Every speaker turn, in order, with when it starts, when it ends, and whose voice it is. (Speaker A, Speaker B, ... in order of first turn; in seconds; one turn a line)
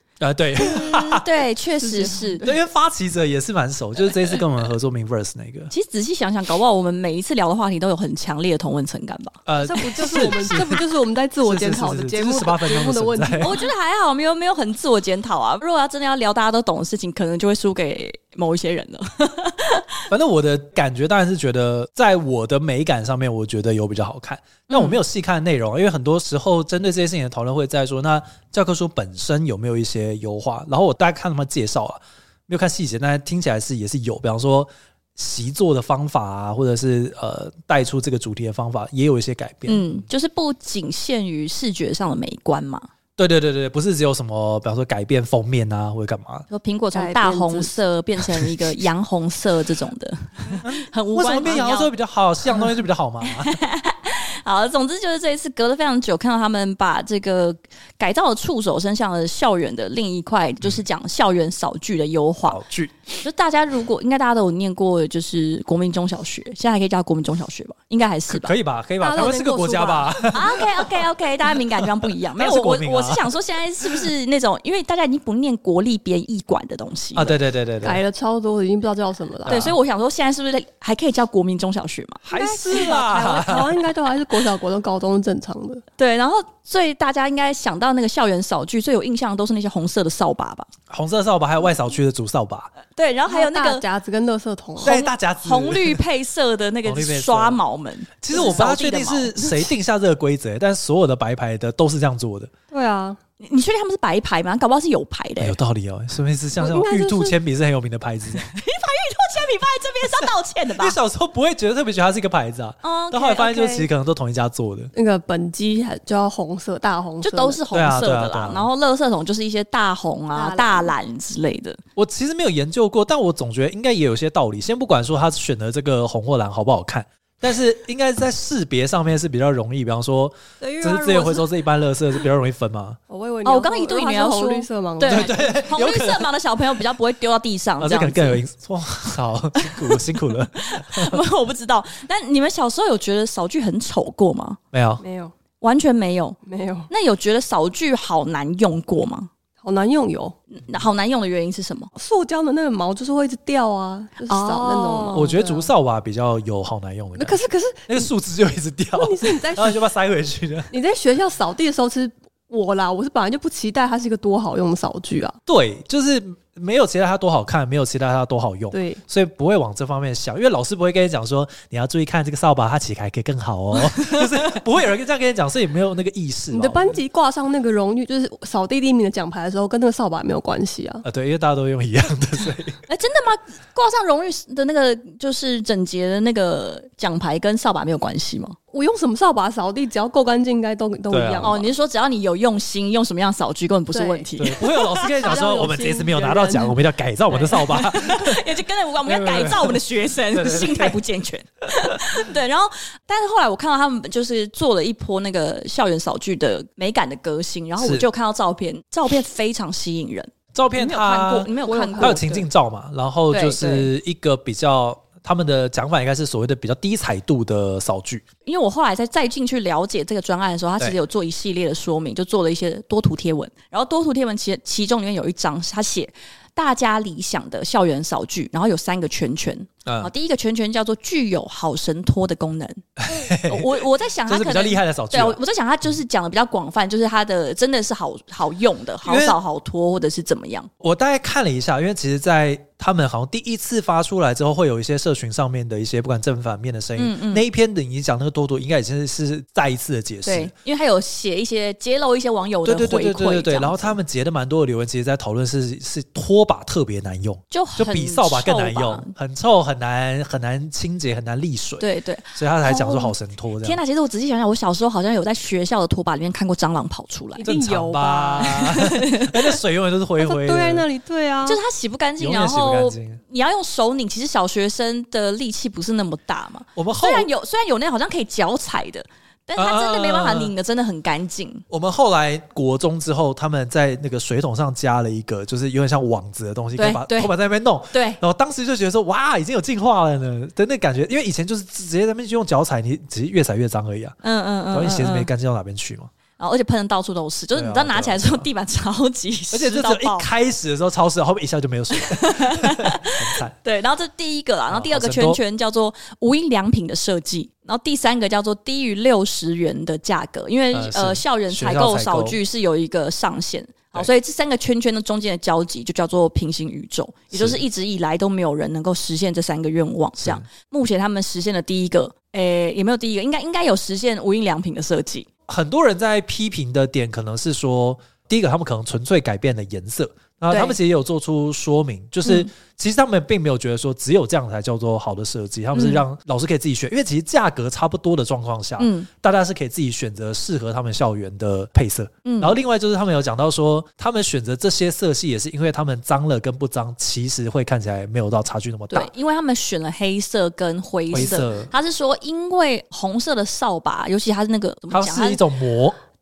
Speaker A: 0.2-1.3
Speaker B: 0.6-2.5
Speaker C: 1.8-2.5
Speaker A: 2.4-5.7
Speaker B: 5.7-10.6
Speaker A: 9.5-10.8
Speaker C: 9.6-13.7
Speaker A: 11.4-13.6
Speaker B: 13.4-19.9
Speaker A: 20.1-40.0
Speaker B: 24.7-25.0
Speaker B: 39.7-42.9
Speaker A: 43.2-46.5
Speaker B: 46.5-51.9
Speaker C: 46.9-47.8
Speaker A: 50.5-53.6
Speaker B: 53.2-62.6
Speaker A: 62.5-63.0
Speaker B: 63.2-68.5
Speaker A: 68.3-70.9
Speaker C: 69.0-70.7
Speaker B: 70.3-77.4
Speaker A: 71.8-73.3
Speaker A: 77.2-78.0
Speaker C: 77.8-79.6
Speaker A: 79.5-79.8
Speaker B: 79.5-82.2
Speaker A: 82.2-83.8
Speaker C: 82.3-85.8
Speaker B: 86.0-90.7
Speaker A: 90.9-92.7
Speaker B: 92.9-93.8
Speaker C: 93.3-95.0
Speaker A: 94.8-96.0
Speaker B: 94.8-99.3
Speaker A: 96.8-97.6
Speaker A: 98.2-102.5
Speaker C: 98.3-98.6
Speaker C: 102.7-103.2
Speaker B: 103.4-105.6
Speaker A: 105.4-108.5
Speaker C: 106.6-107.3
Speaker B: 108.5-111.0
Speaker A: 110.1-114.9
Speaker B: 112.8-113.9
Speaker C: 114.9-117.6
Speaker B: 117.2-121.8
Speaker A: 117.7-118.7
Speaker C: 120.3-120.9
Speaker A: 122.0-133.0
Speaker C: 130.6-131.4
Speaker C: 133.1-135.5
Speaker B: 133.4-138.4
Speaker A: 135.1-136.3
Speaker A: 137.8-141.2
Speaker B: 139.6-140.1
Speaker B: 140.6-144.6
Speaker A: 144.7-145.0
Speaker C: 145.0-145.3
Speaker B: 145.6-146.4
Speaker C: 146.5-146.9
Speaker B: 146.9-149.3
Speaker C: 149.6-150.3
Speaker B: 150.5-151.9
Speaker C: 152.0-155.7
Speaker B: 154.3-155.2
Speaker A: 155.1-160.7
Speaker C: 157.2-158.1
Speaker C: 158.9-159.8
Speaker C: 160.7-165.4
Speaker A: 165.5-177.0
Speaker C: 168.7-169.0
Speaker B: 173.9-174.2
Speaker C: 176.5-181.0
Speaker A: 181.0-182.8
Speaker B: 182.9-188.6
Speaker C: 188.7-191.7
Speaker A: 191.1-191.6
Speaker B: 191.4-195.4
Speaker C: 193.9-196.8
Speaker A: 194.4-198.4
Speaker B: 197.3-212.2
Speaker A: 199.1-201.0
Speaker A: 207.8-208.1
Speaker A: 210.5-218.2
Speaker C: 211.6-212.4
Speaker B: 213.3-213.9
Speaker B: 218.5-240.7
Speaker A: 229.9-230.1
Speaker A: 233.0-235.4
Speaker A: 239.1-239.4
Speaker A: 240.8-250.5
Speaker B: 247.0-247.4
Speaker B: 250.2-254.0
Speaker A: 252.7-263.8
Speaker B: 257.5-259.1
Speaker B: 261.8-262.4
Speaker C: 262.7-263.1
Speaker B: 263.6-267.5
Speaker C: 267.4-268.7
Speaker A: 267.4-270.9
Speaker B: 268.4-269.4
Speaker C: 270.2-271.6
Speaker B: 271.4-281.6
Speaker A: 272.2-273.2
Speaker A: 276.8-277.3
Speaker A: 279.6-280.5
Speaker A: 281.7-294.2
Speaker B: 286.8-287.3
Speaker B: 287.9-288.2
Speaker B: 294.2-295.3
Speaker A: 294.7-296.1
Speaker B: 296.4-300.3
Speaker A: 297.6-298.5
Speaker A: 299.5-303.6
Speaker B: 301.9-325.3
Speaker A: 304.7-305.4
Speaker A: 310.7-312.4
Speaker A: 317.3-317.6
Speaker A: 320.2-320.5
Speaker A: 325.5-349.1
Speaker B: 330.5-330.8
Speaker B: 332.2-332.5
Speaker B: 335.7-336.1
Speaker B: 338.8-339.1
Speaker B: 342.2-342.6
Speaker B: 348.9-355.4
Speaker A: 351.1-351.7
Speaker A: 354.9-356.0